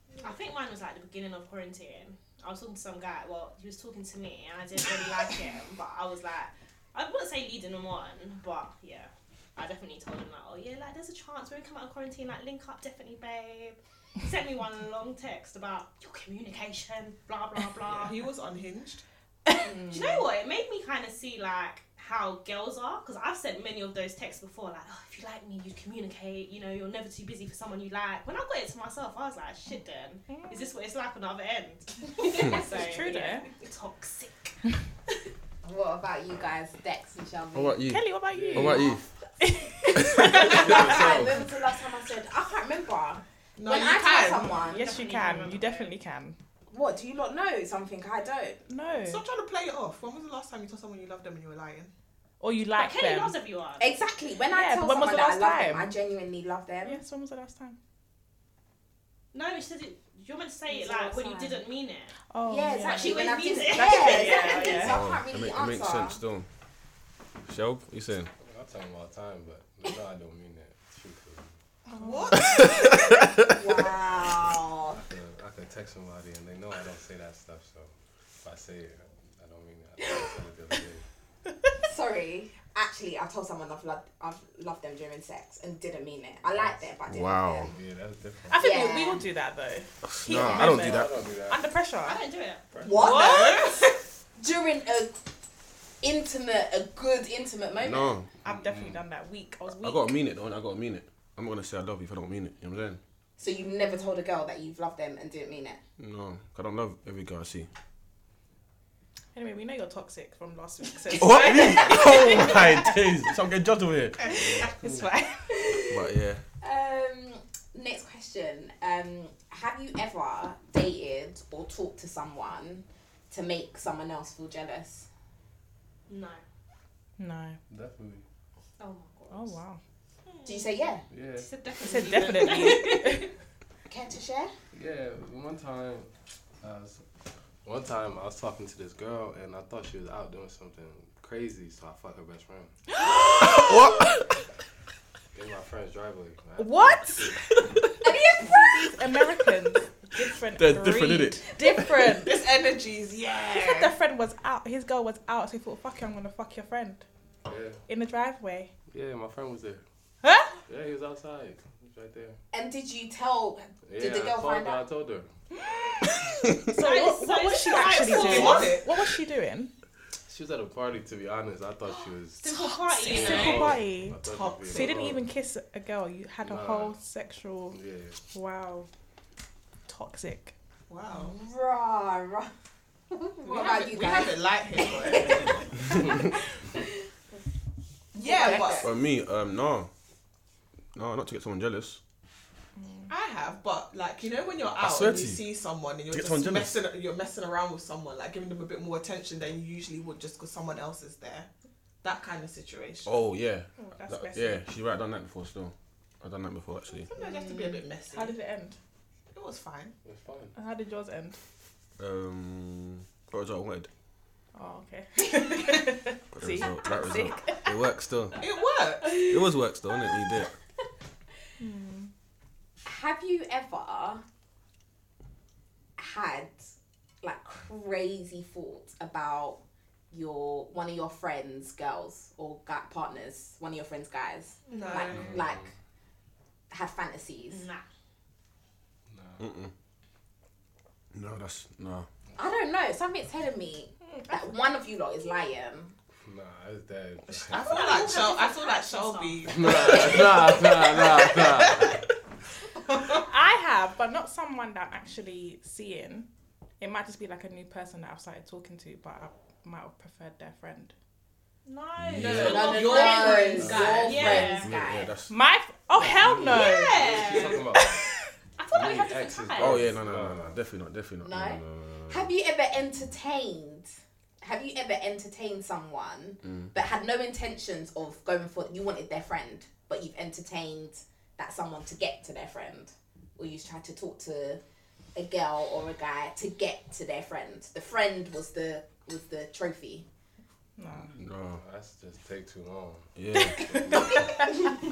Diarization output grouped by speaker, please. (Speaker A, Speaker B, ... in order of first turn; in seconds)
Speaker A: 0.2-18.2, 19.8-34.6, 44.7-45.9, 52.7-53.9, 59.3-62.1, 62.8-65.0, 92.0-92.8, 126.1-126.4, 128.8-129.6, 130.3-130.6, 131.4-133.2, 166.7-168.8, 172.4-173.8, 237.5-237.8, 247.5-250.0, 261.6-264.7, 266.4-267.7, 268.6-269.9
Speaker B: 17.9-19.0, 43.6-44.6, 49.0-51.9, 72.0-73.0, 93.0-94.0, 114.2-114.7, 152.1-153.9, 168.0-169.0, 173.2-173.6, 174.2-175.1, 180.9-181.4, 183.4-185.8, 188.2-188.9, 193.1-201.5, 202.0-203.1, 207.1-208.3, 209.3-209.9, 218.3-219.2, 234.7-235.5, 247.4-252.0, 252.8-253.2, 262.1-264.2
Speaker C: 19.6-20.1, 35.6-37.8, 40.5-44.8, 46.7-48.6, 53.8-57.0, 60.7-61.6, 62.4-66.2, 73.5-75.0, 81.8-87.7, 88.5-89.2, 92.8-93.8, 94.3-95.2, 96.0-98.1, 103.4-105.8, 111.7-112.2, 115.6-116.0, 116.6-125.1, 130.4-131.0, 133.8-134.5, 148.0-149.0, 162.5-164.8, 181.1-182.5, 183.1-187.0, 188.1-188.9, 207.2-207.8, 222.8-224.2, 226.0-235.7, 236.7-237.7, 242.4-245.9, 262.4-265.1, 271.2-284.6, 285.1-290.0
Speaker D: 30.3-30.6, 32.5-33.5, 37.9-41.1, 44.6-46.4, 48.7-49.2, 52.4-53.3, 54.5-56.0, 56.8-57.8, 62.3-65.0, 71.9-72.4, 88.5-92.2, 92.9-93.6, 98.4-100.1, 109.3-112.9, 114.3-115.8, 127.2-127.6, 129.3-129.8, 131.8-133.3, 143.0-143.7, 146.6-147.8, 148.4-152.4, 153.5-157.0, 157.9-158.7, 160.2-160.6, 166.6-169.7, 172.5-177.8, 178.3-178.9, 179.9-180.5, 192.8-193.1, 203.8-204.6, 208.1-208.8, 210.5-211.4, 214.5-217.7, 221.6-222.1, 253.2-256.3, 256.8-260.9, 265.3-267.0, 267.7-268.3, 290.8-291.1, 293.3-294.5
Speaker E: 37.5-39.0, 39.9-40.7, 64.8-66.5, 67.5-68.3, 72.5-72.8, 87.1-87.7, 90.0-91.1, 97.8-98.3, 99.7-103.0, 106.0-107.7, 111.1-114.7, 115.9-116.4, 143.4-144.2, 150.5-152.1, 188.7-189.9, 190.9-192.0, 194.8-195.4, 196.1-196.8, 203.1-207.1, 212.0-213.9, 216.3-218.4, 219.2-220.5, 239.4-239.7, 241.1-242.1, 262.0-262.8, 264.1-265.3, 269.6-272.3, 291.1-291.6, 293.1-293.8
Speaker F: 38.3-38.9, 40.4-41.5, 68.4-71.5, 74.9-81.0, 86.5-86.9, 87.7-88.7, 90.3-91.7, 92.7-93.1, 98.4-99.0, 127.7-128.2, 131.1-131.5, 134.7-137.0, 137.6-142.7, 145.3-147.6, 157.4-157.8, 158.9-159.8, 160.7-162.4, 163.8-165.3, 170.3-172.5, 173.0-175.2, 176.4-176.9, 177.7-178.2, 210.0-210.5, 235.1-235.7, 239.1-239.5, 246.2-248.0, 249.4-252.0, 263.6-264.3, 266.0-268.1, 268.7-270.6, 291.4-294.3